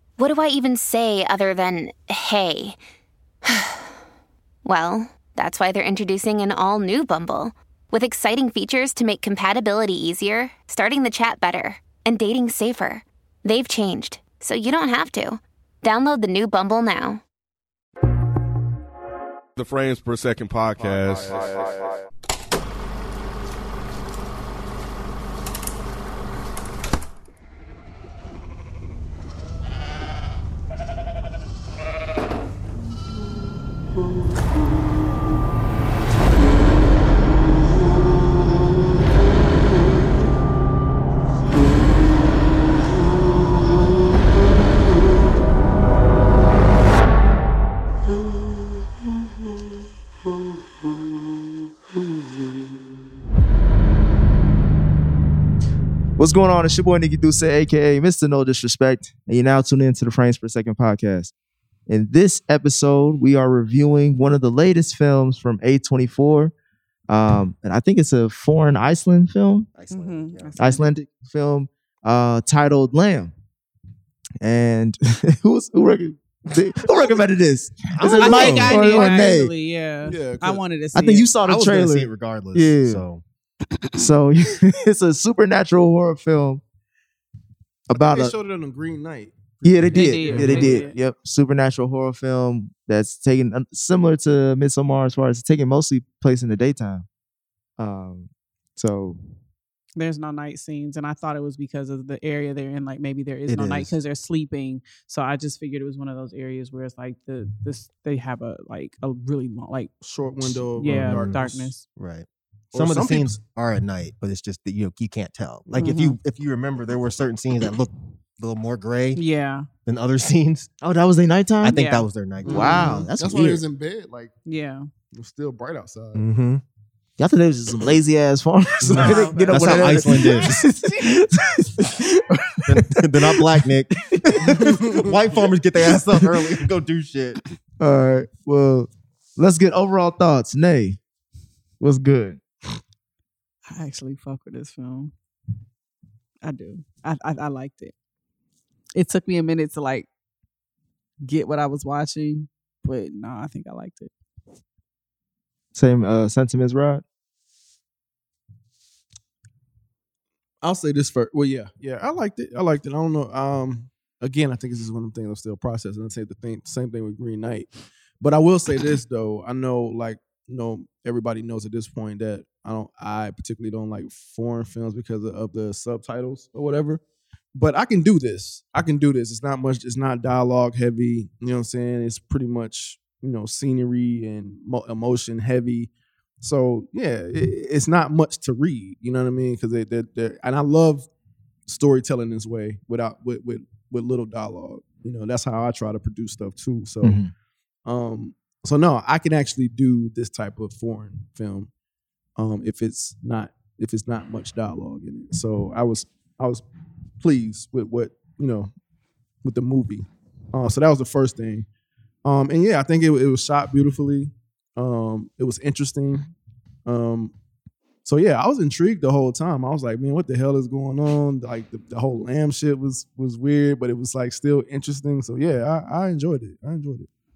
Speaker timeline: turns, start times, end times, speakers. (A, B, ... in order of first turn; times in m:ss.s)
0:00.2-0:02.8 A
0:03.4-0:03.9 A
0:04.6-0:17.2 A
0:19.6-0:22.0 B
0:56.2-1:01.3 C
1:01.9-1:06.5 C
1:07.1-1:09.7 C
1:09.7-1:10.8 D
1:09.9-1:10.9 E
1:10.6-1:13.3 C
1:14.4-1:19.5 C
1:17.9-1:19.2 D
1:18.0-1:21.3 E
1:20.0-1:20.6 F
1:20.9-1:23.0 C
1:21.4-1:23.2 D
1:23.9-1:26.6 C
1:27.9-1:28.3 C
1:27.9-1:30.9 F
1:29.6-1:37.0 C
1:29.9-1:30.9 E
1:37.8-1:39.2 C
1:40.0-1:49.9 E
1:43.5-1:43.9 D
1:50.0-1:51.8 F
1:50.8-1:51.8 E
1:50.8-1:59.2 D
1:52.7-1:53.4 F
1:55.8-1:56.2 E
1:59.2-1:59.7 E
1:59.8-2:00.7 D
2:00.8-2:01.8 C
2:01.6-2:03.1 D
2:01.7-2:02.1 E
2:02.4-2:04.3 F
2:02.4-2:03.6 C
2:04.4-2:04.8 E
2:05.1-2:06.2 F
2:06.1-2:06.6 D
2:07.2-2:14.8 C
2:08.9-2:09.5 E
2:08.9-2:09.9 F
2:09.0-2:10.6 D
2:12.7-2:17.4 D
2:14.6-2:15.1 F
2:15.9-2:16.6 C
2:17.8-2:21.0 C
2:21.8-2:22.4 C
2:23.7-2:25.1 E
2:26.4-2:27.9 E
2:29.0-2:30.1 E
2:31.2-2:34.1 E
2:35.7-2:37.0 C
2:40.6-2:57.0 F
2:57.5-3:11.1 F
3:11.6-3:17.2 F
3:17.0-3:17.3 C
3:17.8-3:21.7 F
3:22.4-3:26.6 F
3:27.2-3:28.7 F
3:29.4-3:31.7 F
3:32.2-3:36.3 F
3:36.8-3:37.3 F
3:38.0-3:47.1 F